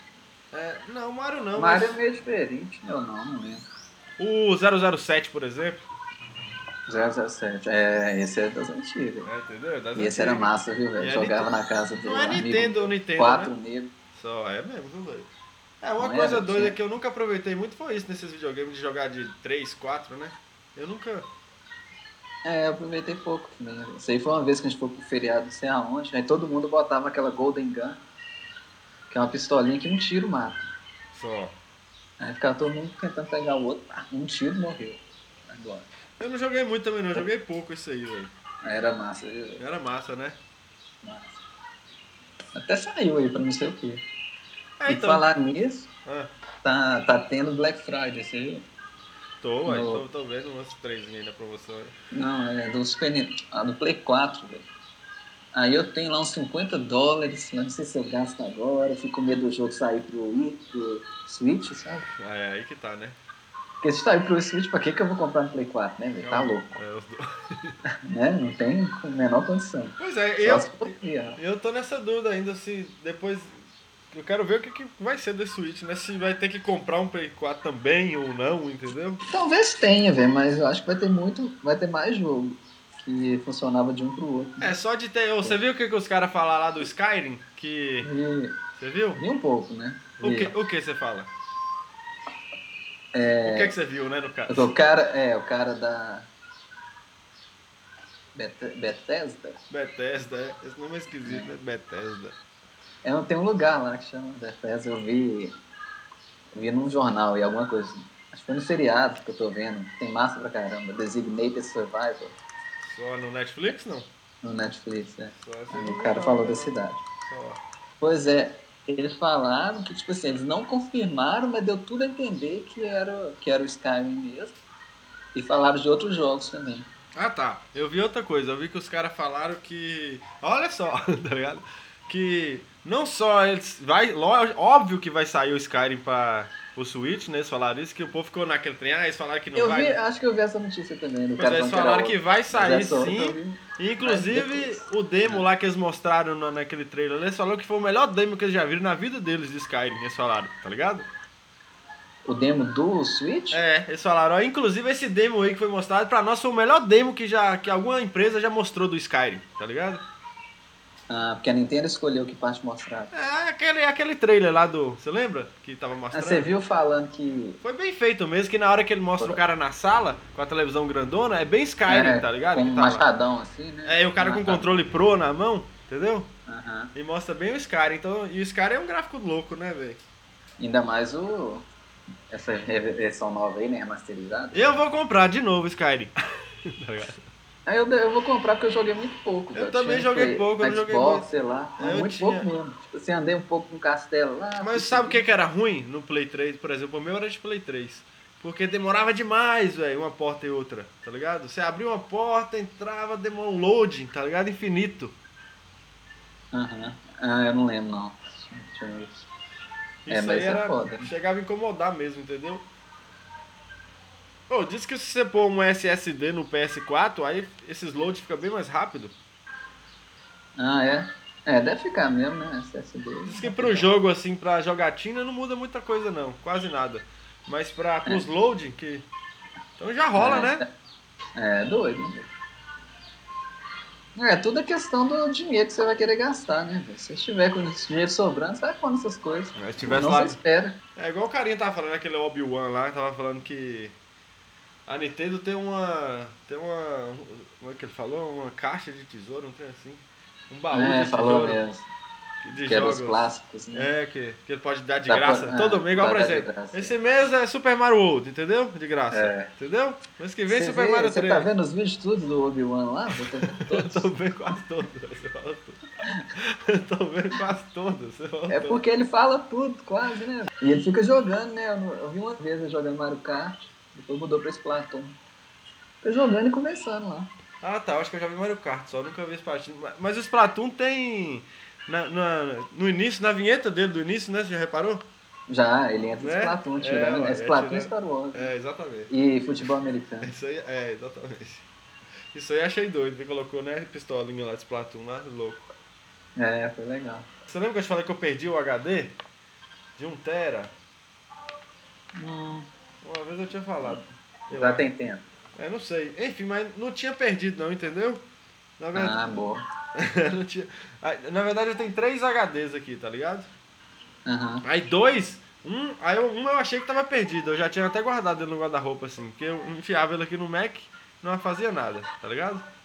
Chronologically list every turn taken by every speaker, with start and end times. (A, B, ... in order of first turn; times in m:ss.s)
0:00.5-0:02.0 A
0:01.6-0:03.6 B
0:04.2-0:05.8 A
0:06.9-0:09.3 B
0:09.2-0:13.5 A
0:09.9-0:13.9 B
0:14.1-0:15.3 A
0:15.8-0:21.3 A
0:16.0-0:16.8 B
0:22.4-0:28.0 B
0:29.1-0:30.7 B
0:31.1-0:31.5 A
0:32.2-0:35.9 B
0:36.2-0:38.3 A
0:38.6-0:39.6 B
0:39.6-0:40.4 A
0:41.0-0:41.4 B
0:42.5-0:44.0 B
0:44.8-0:45.2 A
0:44.9-0:45.9 B
0:46.6-0:48.6 B
0:49.4-0:51.9 A
0:49.6-0:50.0 B
0:52.1-0:54.7 B
0:55.5-1:02.1 B
1:02.2-1:03.2 A
1:03.8-1:06.7 B
1:06.2-1:07.8 A
1:08.1-1:11.4 B
1:10.0-1:13.5 A
1:14.1-1:19.2 A
1:19.3-1:24.7 B
1:24.6-1:28.1 A
1:28.0-1:28.6 B
1:28.8-1:29.2 A
1:29.2-1:30.5 B
1:30.2-1:31.3 A
1:33.1-1:33.7 B
1:33.4-1:34.7 A
1:34.5-1:36.3 B
1:38.3-1:39.6 B
1:39.7-1:42.4 A
1:41.2-1:41.5 B
1:43.0-1:45.6 B
1:46.5-1:52.4 B
1:52.8-1:54.1 A
1:54.4-1:57.0 B
1:55.3-1:57.6 A
1:58.0-2:04.6 B
2:05.3-2:06.9 B
2:07.1-2:20.0 A
2:19.5-2:25.4 B
2:21.4-2:31.1 A
2:32.2-2:33.6 B
2:33.5-2:40.0 A
2:41.1-2:43.1 B
2:43.1-2:46.5 A
2:46.1-2:47.6 B
2:47.6-2:53.0 A
2:51.9-2:54.7 B
2:53.8-2:56.3 A
2:56.5-2:56.9 B
2:56.9-3:00.0 A
3:00.6-3:01.6 B
3:02.3-3:04.8 B
3:04.5-3:06.1 A
3:06.8-3:07.2 A
3:07.6-3:15.3 B
3:09.5-3:11.3 A
3:11.8-3:12.5 A
3:14.6-3:25.1 A
3:26.5-3:29.3 B
3:30.0-3:32.6 A
3:30.1-3:31.1 B
3:34.5-3:39.1 A
3:40.6-3:43.9 B
3:43.2-3:49.1 A
3:49.8-3:50.6 A
3:50.1-3:50.6 B
3:51.4-3:52.3 B
3:54.2-4:00.8 B
3:59.5-4:00.4 A
4:01.0-4:03.9 A
4:04.9-4:11.6 A
4:10.7-4:11.9 B
4:12.4-4:21.5 A
4:12.6-4:13.9 B
4:15.1-4:16.9 B
4:19.1-4:19.5 B
4:20.5-4:24.1 B
4:23.4-4:28.8 A
4:28.5-4:35.2 B
4:36.0-4:37.3 B
4:37.6-4:45.0 A
4:45.5-4:48.5 B
4:46.2-4:49.1 A
4:49.1-4:50.3 B
4:50.2-4:51.6 A
4:52.3-4:55.6 A
4:56.4-4:57.3 B
4:57.5-4:59.1 A
5:00.0-5:00.7 A
5:02.1-5:02.7 B
5:03.0-5:04.8 A
5:04.5-5:05.2 B
5:05.6-5:08.2 A
5:08.8-5:09.4 A
5:08.9-5:09.6 B
5:10.0-5:13.5 A
5:14.3-5:14.6 B
5:14.6-5:22.6 A